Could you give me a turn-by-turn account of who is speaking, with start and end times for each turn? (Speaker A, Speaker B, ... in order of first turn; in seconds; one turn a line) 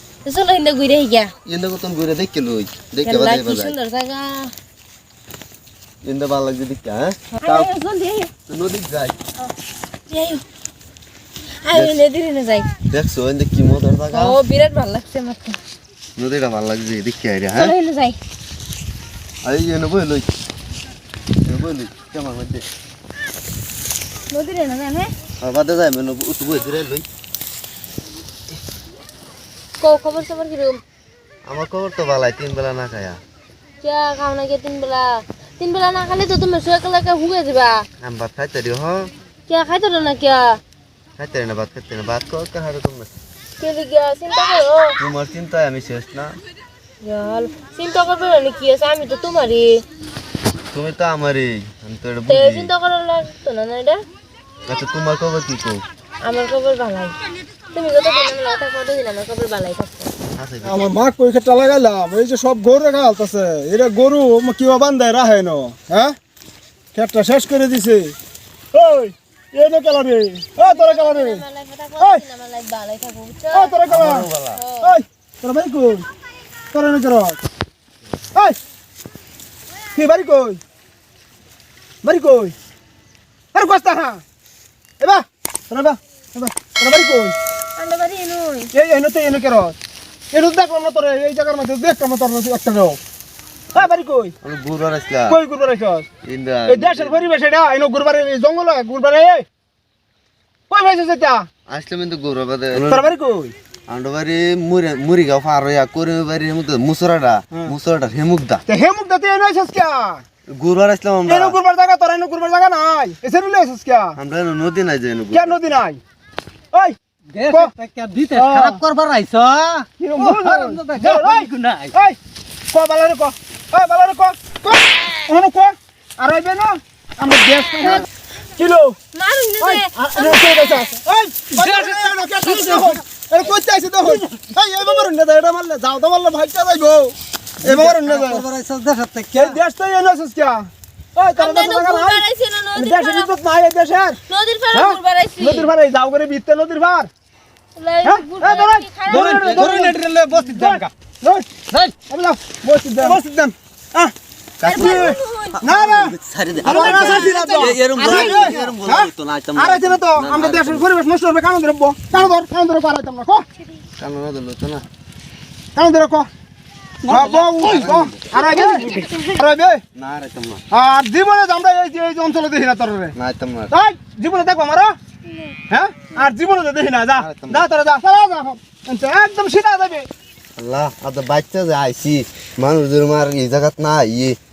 Speaker A: 0.2-1.3
Speaker B: 1.4-3.8
Speaker A: 3.0-4.5
Speaker B: 6.0-7.7
Speaker A: 7.4-8.3
Speaker B: 8.5-9.2
Speaker A: 10.1-10.4
Speaker A: 11.6-12.7
Speaker B: 11.7-12.0
Speaker B: 12.9-14.4
Speaker A: 14.1-15.6
Speaker B: 16.1-17.7
Speaker A: 17.5-18.2
Speaker B: 19.4-20.3
Speaker B: 21.4-22.6
Speaker A: 24.3-25.1
Speaker B: 25.4-27.1
Speaker A: 29.8-30.8
Speaker B: 31.4-33.2
Speaker A: 33.8-37.9
Speaker B: 38.0-39.1
Speaker A: 39.5-40.6
Speaker B: 41.2-43.1
Speaker A: 43.6-45.0
Speaker B: 45.0-46.4
Speaker A: 47.0-49.8
Speaker B: 50.7-52.7
Speaker A: 52.3-54.0
Speaker B: 54.7-55.8
Speaker A: 56.2-57.2
Speaker A: 57.7-60.1
Speaker B: 60.3-60.9
Speaker C: 60.6-66.1
Speaker C: 66.9-68.1
Speaker C: 68.7-71.4
Speaker A: 70.6-73.7
Speaker C: 73.5-74.3
Speaker B: 73.9-74.6
Speaker A: 74.5-74.9
Speaker C: 74.8-76.0
Speaker C: 76.7-77.4
Speaker C: 79.9-80.6
Speaker C: 82.0-82.5
Speaker C: 83.5-84.2
Speaker C: 85.0-87.3
Speaker A: 87.8-88.7
Speaker C: 88.7-89.8
Speaker C: 90.3-93.0
Speaker C: 93.7-94.3
Speaker B: 94.4-95.4
Speaker C: 95.3-96.1
Speaker B: 96.2-97.3
Speaker C: 96.7-99.5
Speaker C: 100.7-101.5
Speaker B: 101.7-103.1
Speaker C: 102.7-103.5
Speaker B: 103.9-108.6
Speaker C: 108.7-110.2
Speaker B: 110.5-111.6
Speaker C: 111.2-114.2
Speaker B: 114.2-115.6
Speaker C: 115.3-116.0
Speaker C: 116.7-117.7
Speaker D: 117.3-121.9
Speaker C: 118.3-118.8
Speaker C: 120.0-122.2
Speaker C: 122.7-129.0
Speaker A: 129.1-130.9
Speaker C: 129.6-138.5
Speaker D: 131.5-132.9
Speaker A: 132.4-132.7
Speaker D: 134.1-134.4
Speaker D: 137.6-139.6
Speaker C: 139.3-142.2
Speaker A: 141.3-143.3
Speaker C: 142.7-144.2
Speaker A: 144.3-145.7
Speaker C: 144.7-147.1
Speaker A: 147.8-149.7
Speaker C: 148.0-151.5
Speaker D: 149.1-150.9
Speaker D: 151.7-151.9
Speaker C: 152.1-154.1
Speaker B: 154.6-154.9
Speaker A: 154.6-155.6
Speaker C: 154.7-163.4
Speaker B: 155.6-160.8
Speaker A: 156.6-158.7
Speaker B: 164.0-164.8
Speaker C: 165.7-166.3
Speaker A: 167.0-167.8
Speaker C: 167.1-169.8
Speaker B: 167.6-168.2
Speaker A: 168.3-169.3
Speaker B: 169.9-170.6
Speaker C: 170.7-173.1
Speaker B: 173.1-173.7
Speaker C: 173.7-174.9
Speaker A: 175.3-175.6
Speaker C: 175.7-180.1
Speaker B: 177.2-177.7
Speaker B: 180.6-184.4